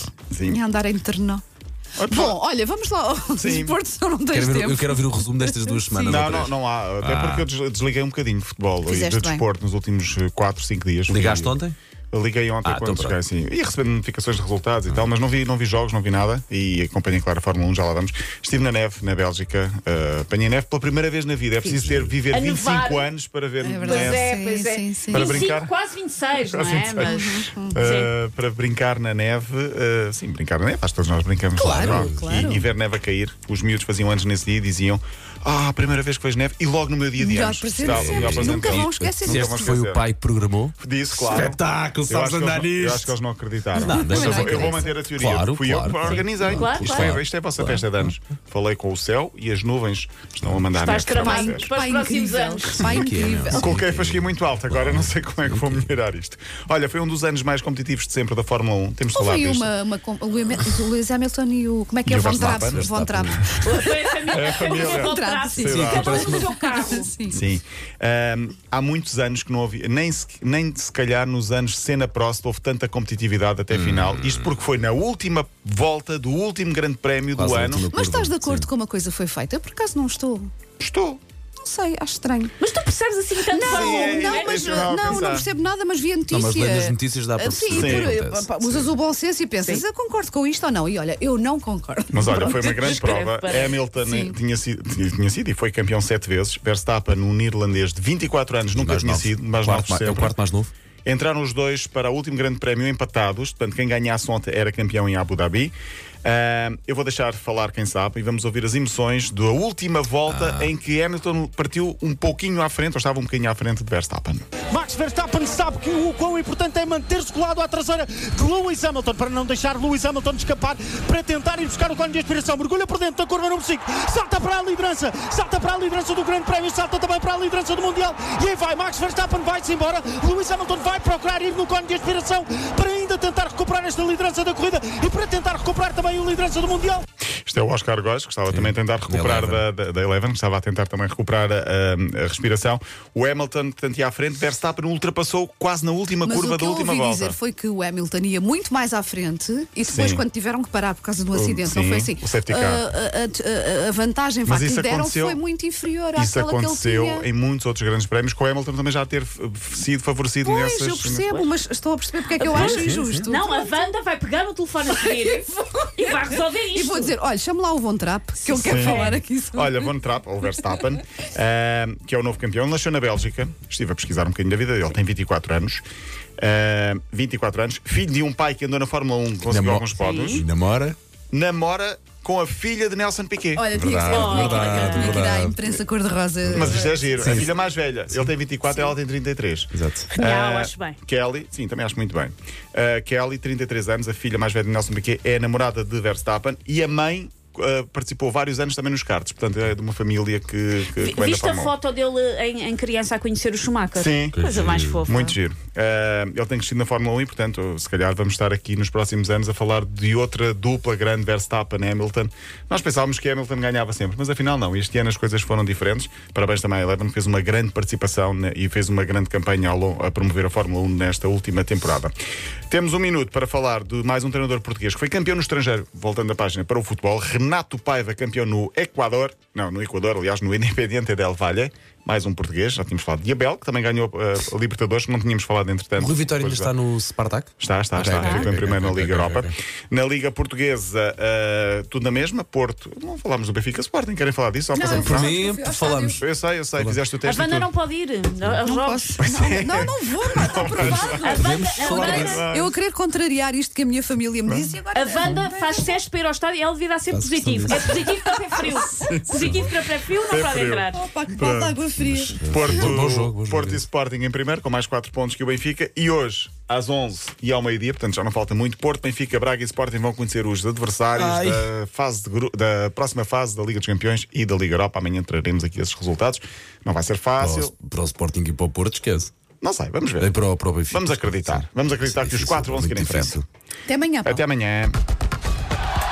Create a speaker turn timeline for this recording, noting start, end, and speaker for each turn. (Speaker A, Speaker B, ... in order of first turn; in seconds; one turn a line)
Speaker A: 0.3-0.6
Speaker B: 0.5-1.4
Speaker A: 2.0-2.4
Speaker B: 2.0-6.3
Speaker A: 3.4-3.8
Speaker C: 4.3-7.5
Speaker A: 6.0-11.6
Speaker B: 8.8-9.4
Speaker C: 11.1-11.8
Speaker A: 12.1-24.3
Speaker C: 12.6-13.2
Speaker C: 21.6-22.2
Speaker D: 22.3-23.1
Speaker B: 23.6-25.4
Speaker D: 23.8-27.3
Speaker A: 25.1-25.7
Speaker A: 26.4-40.0
Speaker B: 27.0-27.8
Speaker D: 27.8-28.1
Speaker B: 31.6-32.6
Speaker C: 31.7-32.2
Speaker B: 37.2-39.8
Speaker C: 37.8-43.1
Speaker A: 40.8-51.7
Speaker C: 43.7-48.1
Speaker B: 43.8-44.9
Speaker D: 46.3-47.2
Speaker D: 50.7-53.0
Speaker B: 51.2-53.7
Speaker C: 52.7-56.0
Speaker A: 53.5-59.7
Speaker B: 59.1-67.4
Speaker A: 62.1-63.7
Speaker C: 62.4-63.4
Speaker D: 63.6-67.1
Speaker A: 64.3-66.3
Speaker C: 65.6-66.5
Speaker A: 67.3-77.9
Speaker C: 73.7-74.6
Speaker C: 77.3-78.7
Speaker B: 77.9-80.5
Speaker A: 80.8-81.2
Speaker B: 81.6-82.6
Speaker D: 82.6-85.2
Speaker B: 83.5-93.0
Speaker A: 83.7-85.5
Speaker C: 86.3-88.9
Speaker A: 87.7-88.2
Speaker A: 92.1-100.4
Speaker D: 92.3-93.8
Speaker B: 94.0-94.4
Speaker C: 98.7-100.7
Speaker A: 101.0-105.7
Speaker A: 106.2-114.4
Speaker C: 110.3-110.7
Speaker E: 114.7-137.1
Speaker A: 137.5-147.4
Speaker C: 138.5-139.7
Speaker B: 146.2-157.3
Speaker A: 149.9-150.2
Speaker A: 151.3-152.8
Speaker A: 154.5-155.4
Speaker A: 156.2-161.4
Speaker B: 160.4-163.8
Speaker D: 162.4-167.2
Speaker C: 162.5-163.2
Speaker B: 164.9-169.9
Speaker D: 168.4-169.2
Speaker A: 168.6-175.8
Speaker A: 176.4-180.4
Speaker C: 179.5-181.0
Speaker D: 180.0-180.4
Speaker A: 181.3-183.7
Speaker B: 183.6-187.5
Speaker C: 183.7-185.7
Speaker D: 184.1-185.3
Speaker C: 186.5-187.5
Speaker A: 186.5-201.8
Speaker C: 189.7-190.1
Speaker D: 190.1-191.0
Speaker D: 200.9-205.4
Speaker A: 203.9-204.4
Speaker C: 204.3-205.1
Speaker A: 205.1-222.1
Speaker A: 222.7-236.7
Speaker C: 236.0-239.6
Speaker A: 237.6-245.4
Speaker D: 238.1-238.5
Speaker B: 244.7-246.2
Speaker C: 244.8-246.2
Speaker A: 246.2-247.7
Speaker C: 246.8-247.0
Speaker D: 247.2-249.2
Speaker B: 248.6-256.0
Speaker A: 249.2-252.8
Speaker C: 250.7-252.4
Speaker D: 251.2-252.4
Speaker A: 254.5-254.8
Speaker D: 254.9-261.1
Speaker C: 257.1-258.1
Speaker B: 257.7-259.4
Speaker A: 259.1-259.6
Speaker A: 260.3-261.8
Speaker B: 260.9-262.8
Speaker C: 262.0-263.9
Speaker A: 262.5-277.7
Speaker C: 271.1-271.7
Speaker C: 277.4-279.3
Speaker A: 279.6-280.3
Speaker C: 280.2-283.4
Speaker A: 280.9-283.4
Speaker B: 283.9-284.4
Speaker A: 284.2-285.0